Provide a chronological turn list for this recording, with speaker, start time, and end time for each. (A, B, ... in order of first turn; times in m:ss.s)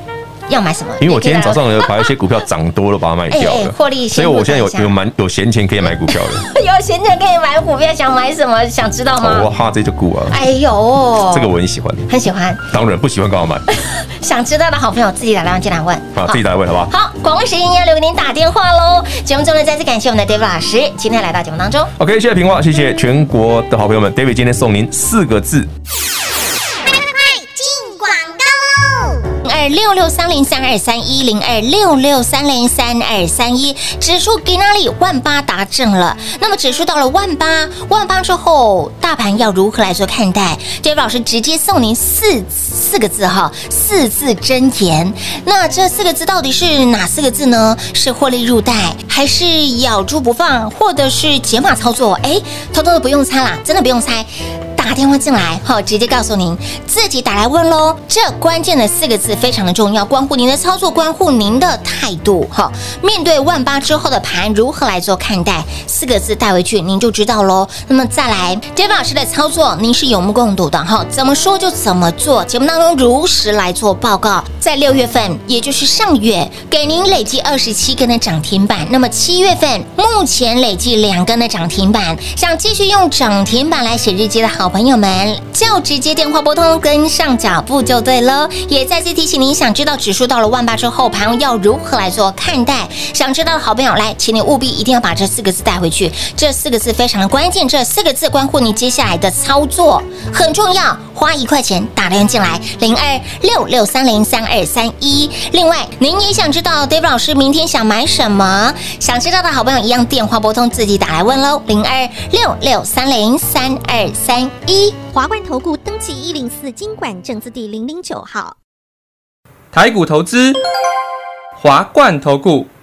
0:00.5-0:02.1 A
0:01.0-0:06.4 B
0:03.3-0:04.9 A
0:06.1-0:09.5 A
0:09.2-0:10.4 B
0:10.3-0:11.5 A
0:11.3-0:12.1 B
0:12.1-0:12.6 A
0:12.7-0:13.6 B
0:13.7-0:21.9 A
0:16.1-0:16.9 B
0:22.0-0:25.7 B
0:26.7-0:29.3 C
0:29.4-1:55.0 A
1:55.1-1:58.6 D
1:59.7-2:00.6 E
2:01.6-2:02.7 E